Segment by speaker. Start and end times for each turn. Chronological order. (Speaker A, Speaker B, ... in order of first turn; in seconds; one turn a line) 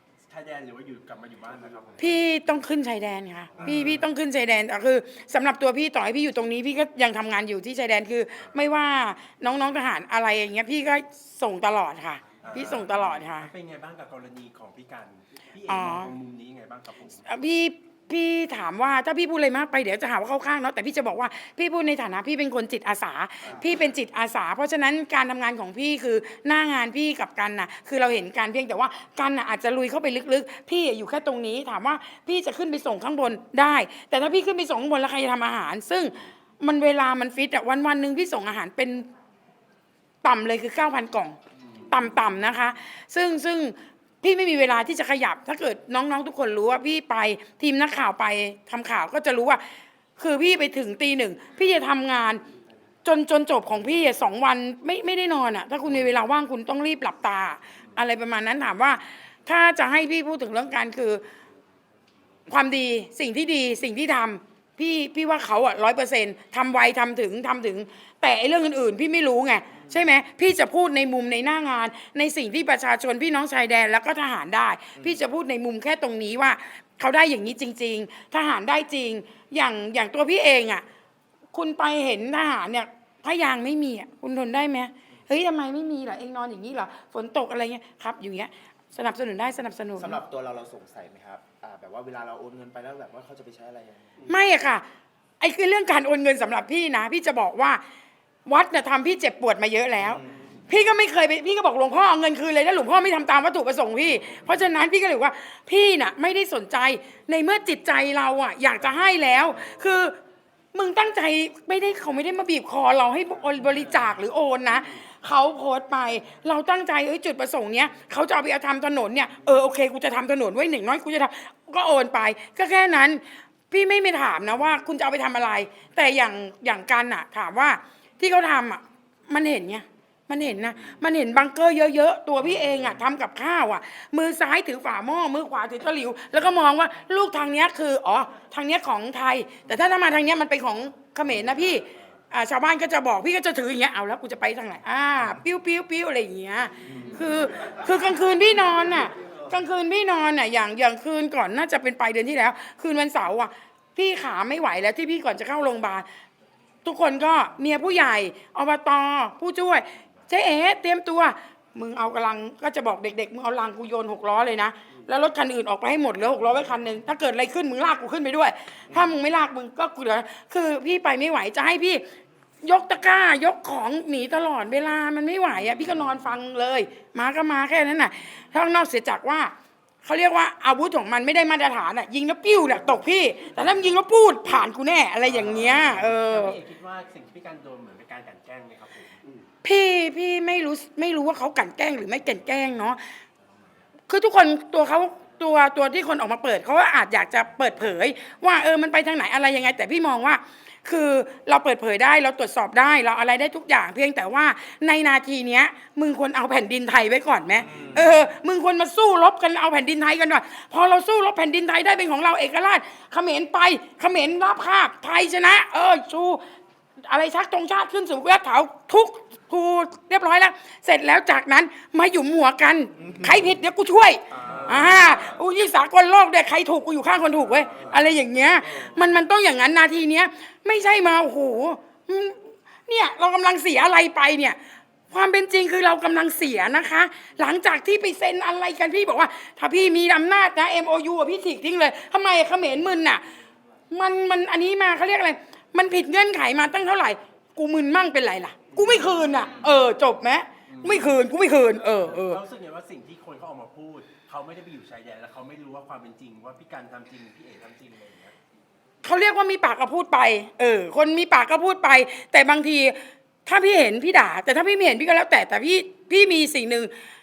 Speaker A: 0.3-2.1
Speaker B: 2.0-13.5
Speaker A: 3.6-4.0
Speaker A: 12.4-17.2
Speaker B: 15.7-16.1
Speaker B: 17.3-39.1
Speaker B: 40.2-41.4
Speaker B: 41.9-49.6
Speaker B: 50.2-52.4
Speaker B: 53.0-61.2
Speaker B: 62.5-80.8
Speaker B: 81.5-90.2
Speaker C: 90.0-94.2
Speaker B: 94.3-94.8
Speaker B: 95.4-97.8
Speaker B: 98.5-110.2
Speaker C: 100.1-100.3
Speaker B: 110.7-156.1
Speaker B: 156.8-172.0
Speaker B: 172.6-179.5
Speaker B: 180.0-186.6
Speaker A: 185.3-189.2
Speaker B: 189.6-193.2
Speaker B: 194.1-216.4
Speaker C: 207.7-208.1
Speaker B: 217.0-234.6
Speaker A: 224.3-225.4
Speaker A: 227.6-228.0
Speaker B: 235.1-243.2
Speaker B: 243.9-252.4
Speaker A: 250.7-251.2
Speaker A: 252.0-258.4
Speaker B: 259.0-266.9